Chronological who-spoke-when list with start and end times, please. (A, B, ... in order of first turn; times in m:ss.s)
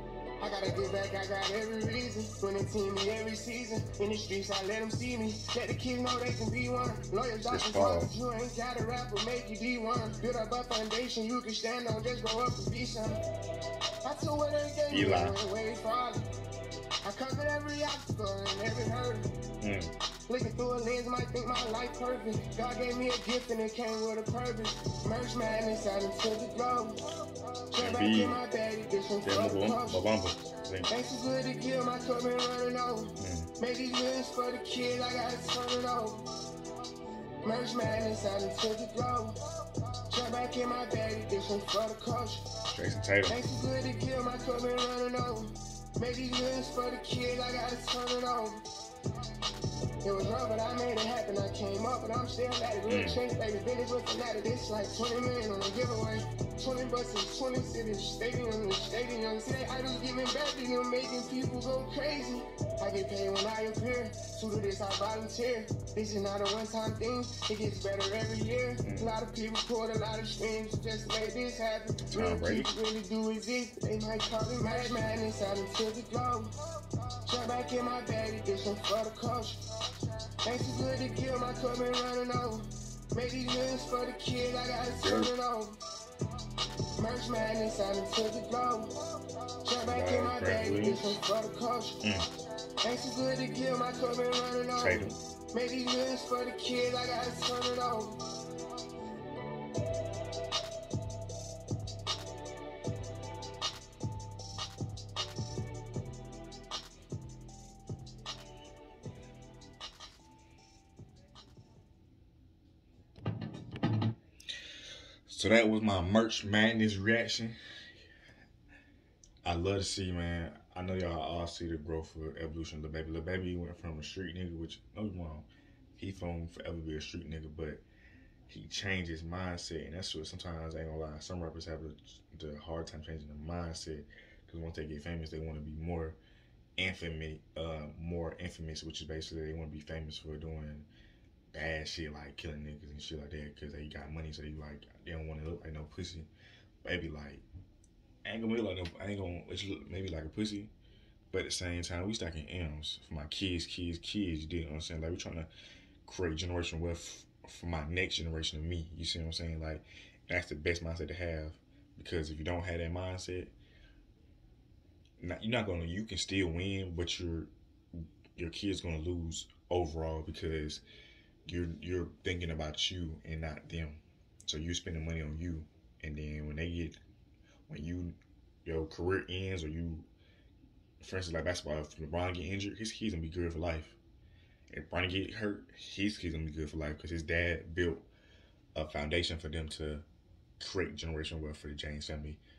0:00.4-0:13.2 A
0:07.4-0:08.1 B
0:14.0-0:16.3 A
0:14.9-0:15.4 B
0:17.0-0:19.3 A
0:19.6-0:19.9 B
0:20.3-0:27.0 A
0:27.7-0:30.0 A
0:27.8-0:28.4 B
0:29.2-0:30.9 B
0:30.9-0:36.3 A
0:33.2-0:33.5 B
0:37.4-0:39.4 A
0:40.1-0:42.5 A
0:42.7-0:43.4 B
0:43.3-0:48.6 A
0:50.0-1:16.5 A
0:52.9-0:53.2 B
1:08.8-1:09.2 B
1:12.1-1:12.7 B
1:17.2-1:19.6 A
1:20.4-1:25.8 A
1:24.8-1:25.3 B
1:27.0-1:29.0 A
1:29.6-1:32.0 A
1:29.8-1:31.2 B
1:32.0-1:32.3 B
1:32.8-1:38.2 A
1:34.8-1:35.2 B
1:55.3-1:57.6 B
1:59.4-2:07.8 B
2:08.5-2:16.2 B
2:16.8-2:20.9 B
2:21.5-2:26.3 B
2:26.8-2:27.4 B
2:28.2-2:30.7 B
2:31.3-2:35.5 B
2:36.0-2:43.5 B
2:45.2-2:50.8 B
2:51.5-2:57.0 B
2:57.7-3:00.1 B
3:01.0-3:04.0 B
3:04.7-3:08.1 B
3:08.7-3:10.0 B
3:10.6-3:12.4 B